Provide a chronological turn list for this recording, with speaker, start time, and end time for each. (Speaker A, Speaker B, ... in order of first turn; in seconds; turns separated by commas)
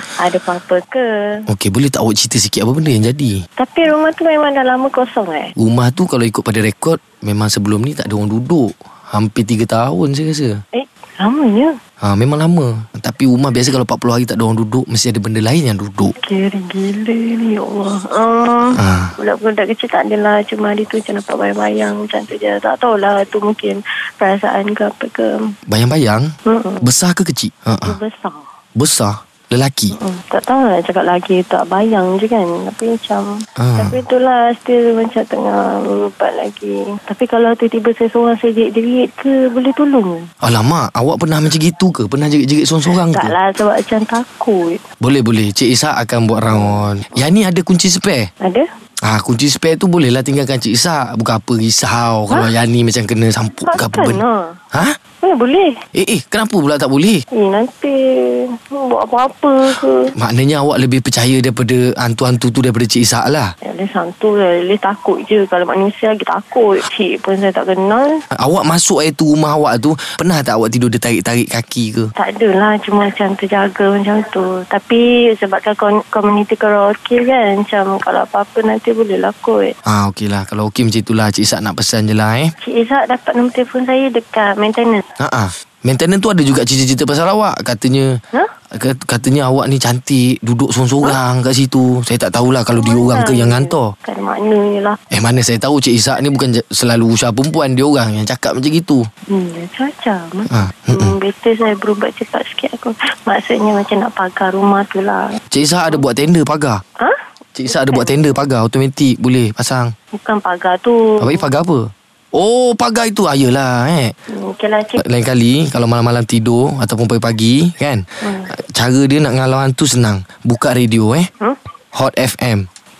Speaker A: 0.2-1.1, Speaker B: 1.5-3.4, Speaker A: 3.6-5.5, Speaker B: 5.6-10.6, Speaker A: 10.7-11.8, Speaker B: 12.0-16.1, Speaker A: 16.2-25.5, Speaker B: 18.7-19.1, Speaker B: 25.7-26.3, Speaker A: 26.4-26.9, Speaker B: 26.8-28.0, Speaker A: 27.8-28.5, Speaker B: 28.8-29.9, Speaker A: 29.9-40.3, Speaker B: 33.6-34.0, Speaker B: 40.4-43.3, Speaker A: 43.1-44.8, Speaker B: 45.0-48.3, Speaker A: 46.4-47.0, Speaker B: 49.0-54.2, Speaker A: 53.6-54.5, Speaker B: 54.7-55.0, Speaker A: 55.2-55.8, Speaker B: 55.9-57.2, Speaker A: 57.3-60.1, Speaker B: 60.1-63.5, Speaker A: 63.6-68.2, Speaker B: 68.3-72.1, Speaker A: 72.2-79.8, Speaker B: 79.8-82.5, Speaker A: 82.6-85.0, Speaker B: 85.2-88.2, Speaker B: 88.7-93.9, Speaker A: 92.7-95.0, Speaker B: 95.1-99.0, Speaker A: 99.3-106.0, Speaker B: 100.5-101.2, Speaker B: 105.5-106.8, Speaker A: 107.0-108.2, Speaker B: 107.5-109.9, Speaker A: 110.1-111.5, Speaker B: 111.2-114.1, Speaker A: 114.3-115.0, Speaker B: 115.0-121.3, Speaker A: 118.2-118.5, Speaker B: 121.9-122.7